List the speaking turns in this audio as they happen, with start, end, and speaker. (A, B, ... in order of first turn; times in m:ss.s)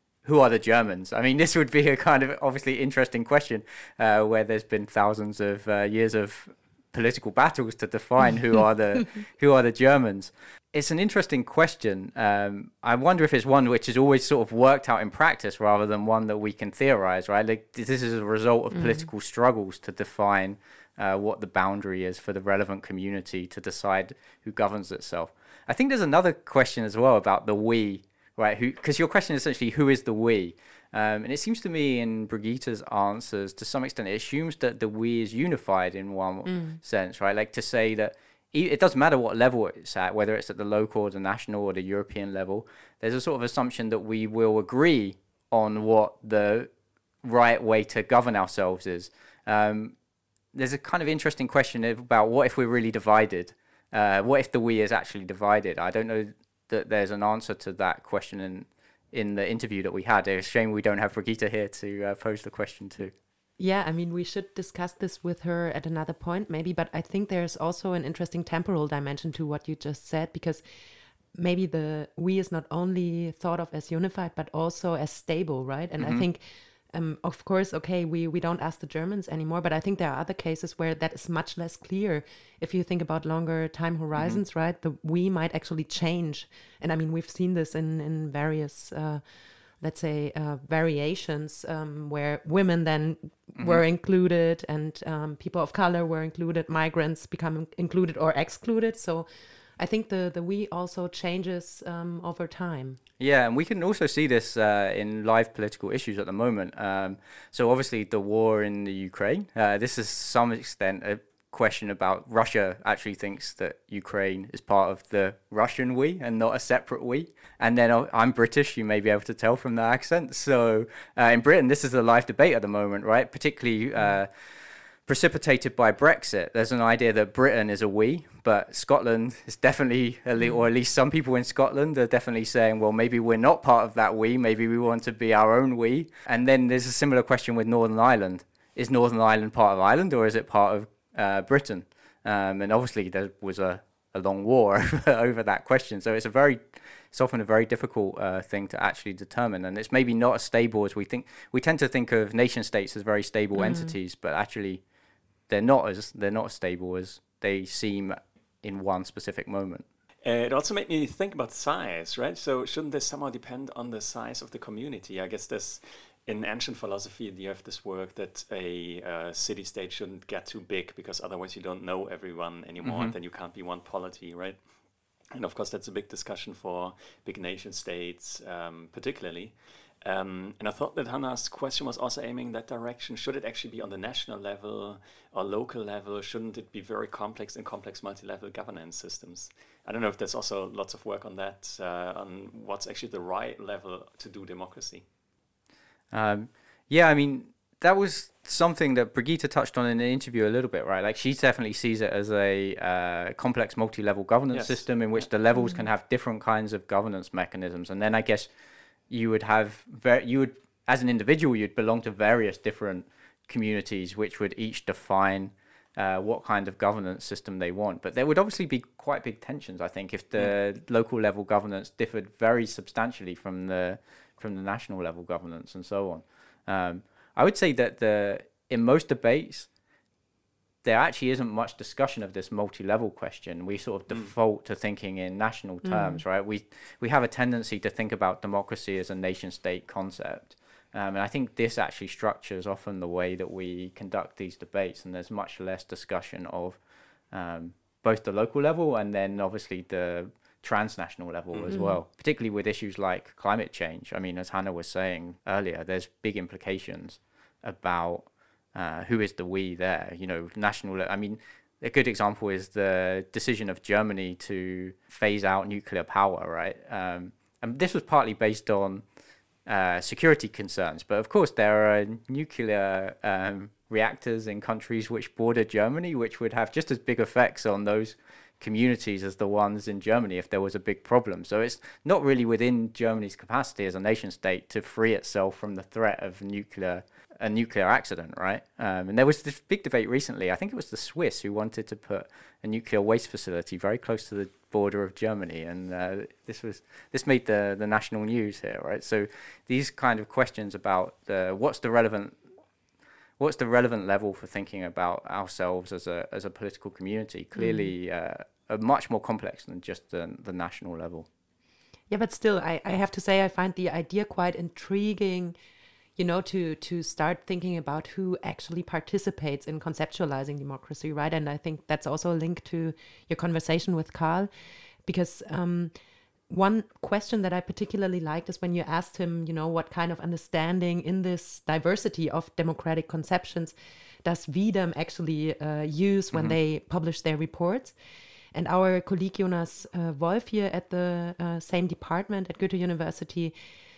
0:00.2-0:46.7 A
0:18.7-0:19.1 B
0:36.4-0:36.8 B
0:47.2-0:50.0 A
0:50.5-1:03.1 A
1:03.6-1:10.6 B
1:11.3-1:43.0 B
1:16.0-1:16.3 A
1:33.6-1:33.8 A
1:43.2-2:04.3 A
2:05.1-2:34.8 A
2:33.6-2:33.9 B
2:35.5-2:39.8 A
2:40.2-2:54.7 C
2:52.8-2:53.1 A
2:55.3-3:15.0 C
3:16.1-3:28.5 A
3:24.5-3:25.3 C
3:25.5-3:25.9 B
3:29.1-3:49.7 A
3:50.8-4:29.0 A
3:55.8-3:56.2 B
4:11.5-4:11.8 C
4:11.7-4:12.0 B
4:29.6-5:02.4 A
5:03.4-5:11.3 A
5:07.6-5:07.9 B
5:12.1-5:15.6 B
5:16.2-5:24.5 B
5:25.0-5:25.9 B
5:26.5-5:38.0 B
5:36.3-5:36.6 A
5:38.5-5:43.6 B